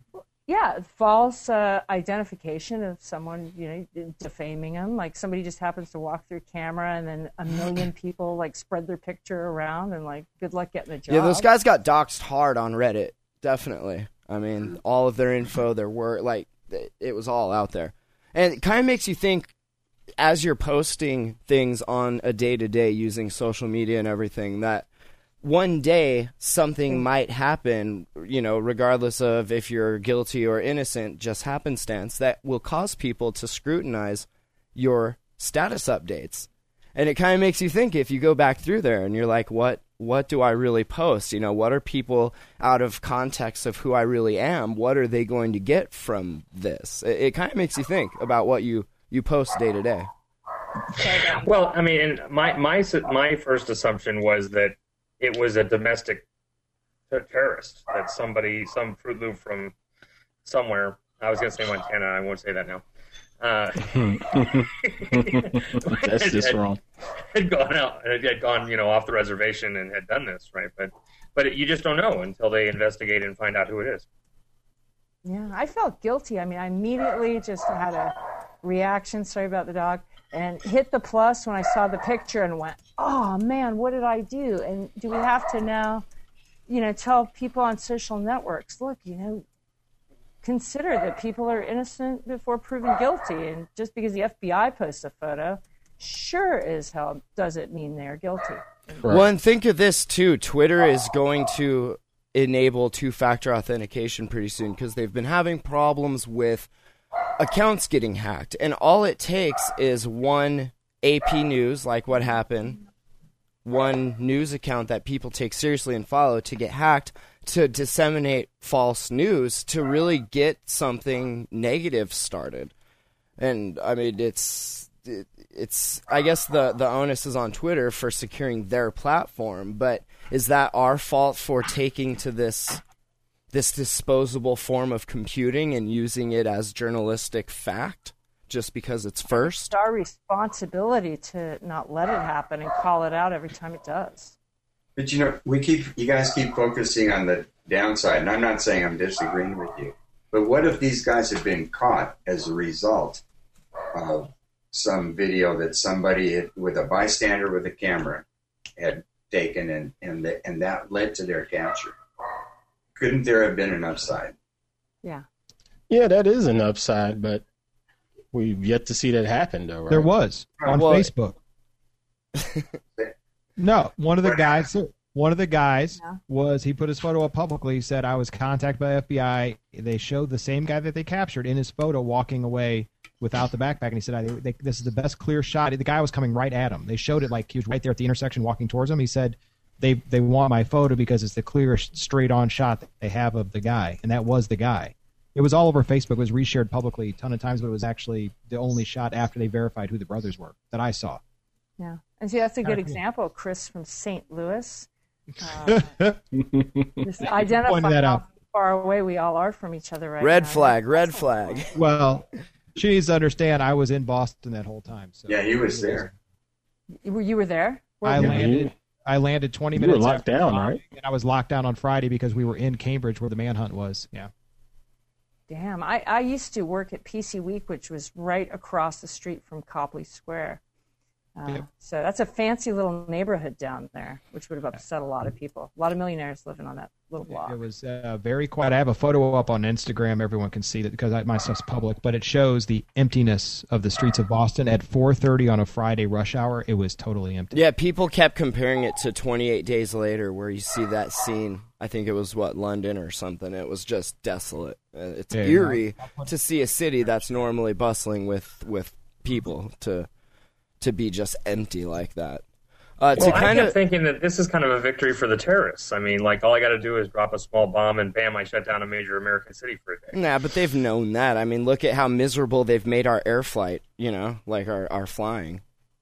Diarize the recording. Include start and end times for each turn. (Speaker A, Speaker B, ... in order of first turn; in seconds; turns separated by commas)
Speaker A: 0.5-11.5, Speaker B: 11.1-19.5, Speaker B: 20.2-24.9, Speaker B: 25.4-50.1, Speaker A: 51.0-51.5, Speaker C: 51.1-56.2, Speaker C: 57.1-59.7, Speaker C: 60.5-62.8, Speaker C: 63.4-66.6, Speaker D: 63.8-66.8, Speaker C: 67.3-74.0, Speaker A: 75.2-86.0, Speaker A: 86.7-89.5, Speaker A: 90.4-99.1, Speaker D: 99.0-99.3, Speaker B: 99.1-106.7, Speaker B: 107.4-112.8, Speaker B: 113.7-122.7, Speaker B: 123.4-132.8, Speaker B: 133.5-139.7, Speaker A: 139.3-144.3, Speaker E: 145.0-153.2, Speaker E: 153.9-158.2, Speaker E: 158.8-161.9, Speaker E: 163.0-164.3, Speaker D: 165.9-167.4, Speaker D: 168.3-170.1, Speaker F: 169.9-171.4, Speaker B: 170.7-171.1, Speaker F: 173.6-201.2, Speaker E: 174.3-174.6, Speaker A: 201.8-204.9, Speaker F: 202.6-203.0, Speaker A: 205.4-205.9, Speaker F: 205.7-206.2, Speaker D: 206.4-207.0, Speaker A: 207.0-211.7, Speaker F: 207.6-208.2, Speaker B: 210.2-211.7, Speaker F: 211.7-216.2, Speaker E: 215.3-216.1, Speaker A: 217.0-218.4, Speaker F: 218.0-224.3, Speaker D: 218.1-218.7, Speaker D: 219.8-220.8, Speaker A: 225.5-230.6, Speaker A: 231.4-237.6, Speaker F: 237.3-247.6, Speaker B: 247.5-260.1, Speaker F: 255.3-256.3, Speaker B: 260.8-262.4, Speaker B: 263.0-263.8, Speaker C: 263.2-270.1, Speaker D: 263.2-263.5, Speaker B: 270.1-275.6